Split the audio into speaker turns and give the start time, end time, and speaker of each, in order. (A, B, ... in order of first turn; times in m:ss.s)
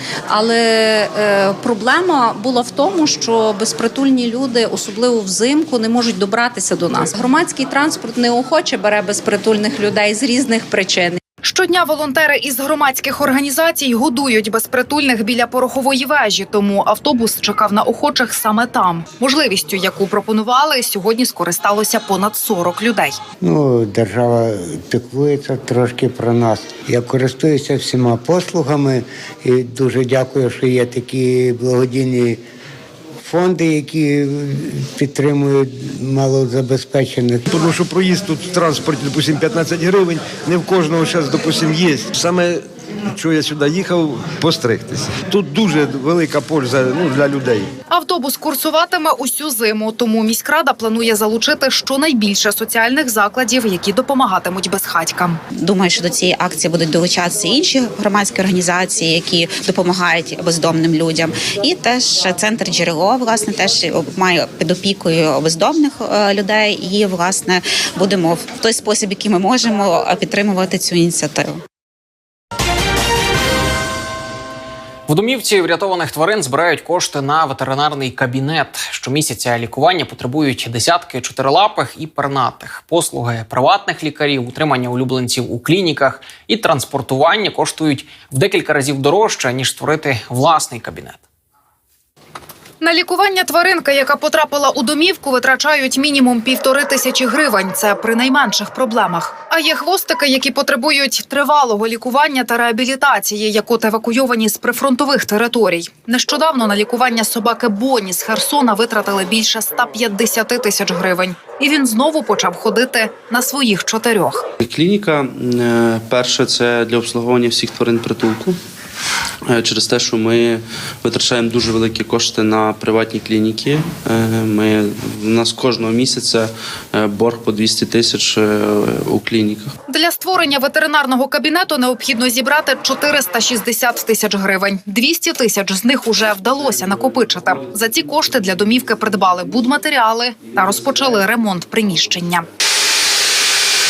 0:00.3-0:11.2 A
0:11.4-0:23.2 B
0:23.4-0:32.4 C
0:33.2-0:37.4 C
0:37.5-0:47.7 D
0:47.9-0:55.4 B
0:55.6-1:11.6 E
1:15.1-1:31.2 F
1:32.8-1:54.5 B
1:54.6-1:58.6 G
1:59.5-2:09.7 G
2:09.9-2:22.5 B